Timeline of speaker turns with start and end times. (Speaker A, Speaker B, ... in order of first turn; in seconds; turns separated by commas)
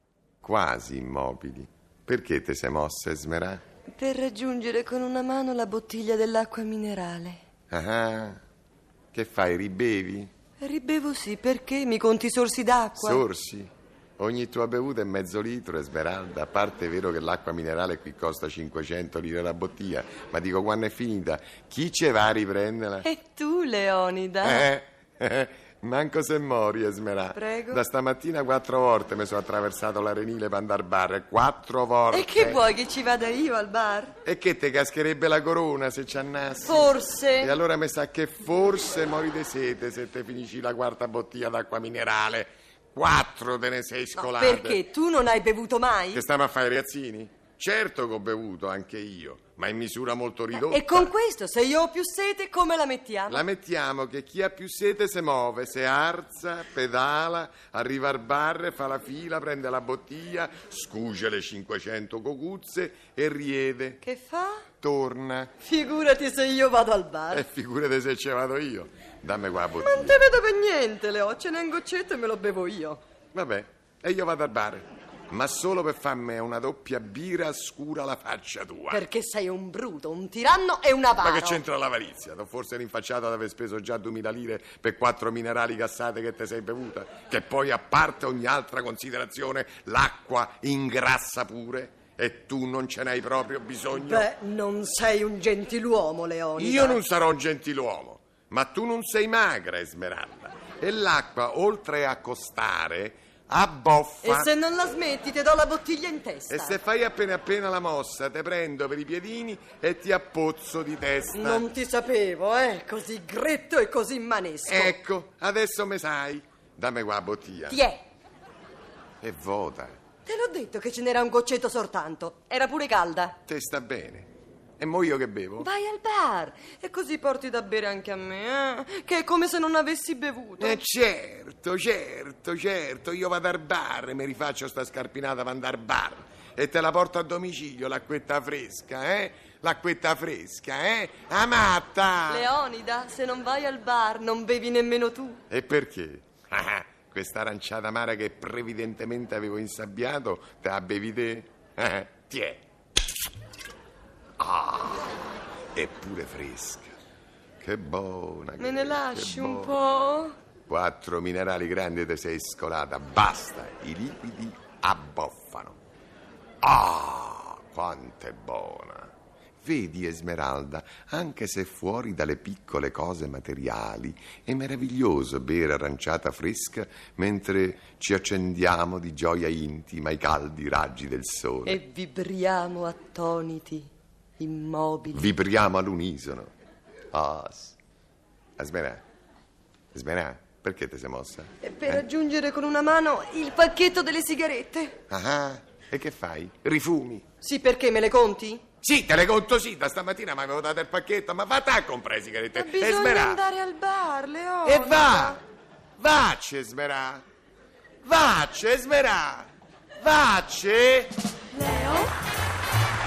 Speaker A: 0.4-3.6, Speaker B: 3.9-7.4, Speaker A: 7.7-8.4, Speaker A: 9.1-10.3, Speaker B: 10.6-13.2, Speaker A: 13.0-23.1, Speaker B: 23.0-24.7, Speaker A: 24.4-32.6, Speaker B: 27.3-27.8, Speaker B: 32.1-34.1, Speaker A: 34.2-44.8, Speaker B: 36.6-37.6, Speaker B: 44.1-46.3, Speaker A: 46.1-51.1, Speaker B: 50.5-53.5, Speaker A: 53.3-64.0, Speaker B: 64.0-64.7, Speaker A: 64.8-65.5, Speaker B: 65.6-67.5, Speaker A: 67.3-70.2, Speaker B: 69.8-73.0, Speaker A: 73.3-79.0, Speaker B: 78.9-81.6, Speaker A: 81.2-94.3, Speaker B: 93.9-97.0, Speaker A: 96.6-104.5, Speaker B: 104.2-106.8, Speaker A: 106.5-111.7, Speaker B: 111.3-115.0, Speaker A: 114.7-117.8, Speaker B: 117.7-118.0, Speaker A: 119.2-120.0, Speaker B: 120.2-123.4, Speaker A: 123.5-125.7, Speaker B: 125.6-130.8, Speaker A: 130.6-142.5, Speaker B: 142.3-145.4, Speaker A: 145.5-152.6, Speaker A: 154.4-155.2, Speaker A: 155.7-156.9, Speaker A: 157.6-159.8, Speaker B: 158.6-160.4, Speaker A: 160.7-165.8, Speaker A: 166.6-181.8, Speaker B: 181.7-185.3, Speaker A: 185.1-186.5, Speaker A: 187.1-187.8, Speaker A: 188.6-189.0, Speaker A: 189.9-192.1, Speaker B: 191.6-195.0, Speaker A: 195.1-197.2, Speaker B: 197.4-198.7, Speaker A: 198.8-203.4, Speaker B: 202.5-205.4, Speaker A: 204.6-205.4, Speaker A: 206.0-207.2, Speaker A: 208.0-209.5, Speaker A: 210.0-211.2, Speaker B: 211.5-212.1